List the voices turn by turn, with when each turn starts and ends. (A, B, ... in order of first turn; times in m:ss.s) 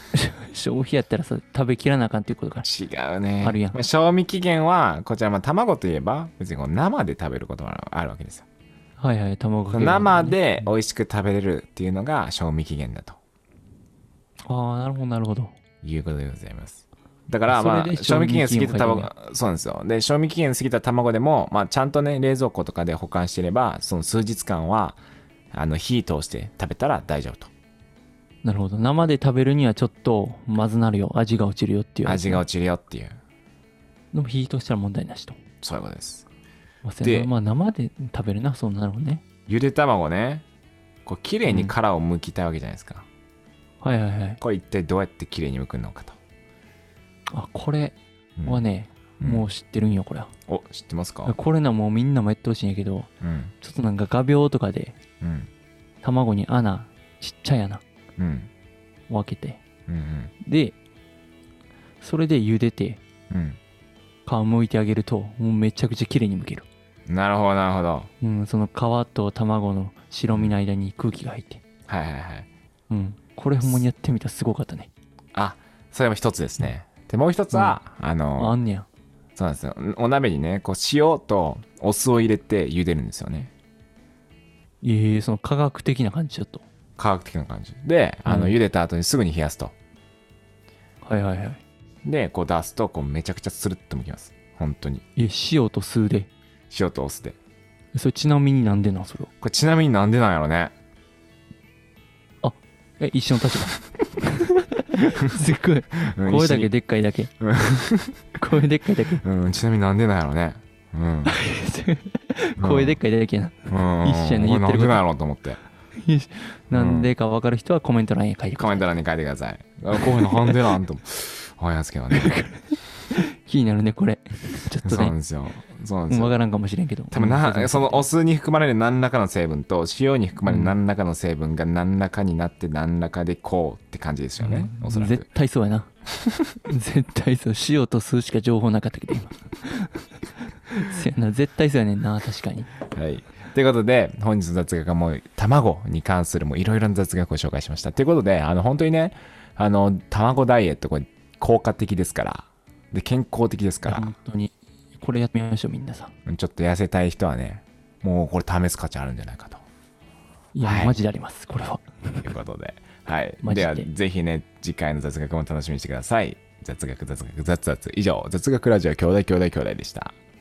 0:00.1-0:02.6 A
0:02.6-0:08.4 B
0:03.4-0:03.8 A
0:09.0-0:10.4 A
0:09.7-0:13.2 B
0:14.4-0:15.5 A
0:15.8-0:25.0 B
0:17.5-0:19.1 A
0:25.5-0:27.5 B
0:28.4-0:32.4 A
0:32.0-0:33.2 B
0:34.1-0:35.4 A
0:35.6-0:36.2 B
0:36.8-0:39.2 A
0:37.0-0:37.3 B
0:39.5-0:40.4 B
0:41.0-0:43.0 B
0:41.4-0:41.7 A
0:43.8-0:44.4 A
0:44.4-0:46.2 B
0:47.3-0:50.3 A
0:48.4-0:48.6 B
0:49.2-0:49.4 B
0:50.5-0:51.4 B
0:51.2-0:53.1 A
0:53.2-0:53.5 B
0:53.6-0:55.0 A
0:55.2-0:55.5 B
0:56.0-0:57.8 A
0:58.2-0:58.5 B
0:59.1-0:59.6 A
0:59.9-1:00.3 B
1:00.4-1:00.8 A
1:02.0-1:03.0 A
1:03.3-1:03.6 B
1:04.2-1:06.6 A
1:07.1-1:08.1 B
1:08.2-1:11.6 A
1:11.9-1:12.5 B
1:12.9-1:14.9 A
1:15.3-1:18.6 B
1:18.4-1:18.9 A
1:19.4-1:23.5 B
1:24.8-1:26.6 A
1:27.0-1:29.7 B
1:28.2-1:28.5 A
1:31.0-1:31.6 A
1:32.0-1:35.0 B
1:35.2-1:36.3 A
1:36.7-1:37.4 B
1:37.9-1:39.3 A
1:39.4-1:40.7 B
1:42.4-1:47.3 A
1:46.1-1:46.7 B
1:47.4-1:48.3 B
1:48.4-1:49.2 A
1:49.2-1:51.4 B
1:51.2-1:55.0 A
1:52.6-1:53.0 B
1:53.7-1:55.6 B
1:56.0-1:58.9 A
1:56.7-1:57.1 B
1:58.6-2:02.4 B
2:00.0-2:00.6 A
2:02.1-2:05.1 A
2:04.8-2:06.3 B
2:06.1-2:08.1 A
2:07.1-2:15.2 B
2:10.4-2:10.8 A
2:14.4-2:15.9 A
2:16.6-2:20.0 A
2:20.7-2:22.7 A
2:22.8-2:34.1 B
2:33.8-2:36.1 A
2:36.2-2:39.6 B
2:40.5-2:42.3 A
2:40.6-2:41.0 B
2:42.2-2:50.1 B
2:43.4-2:43.9 A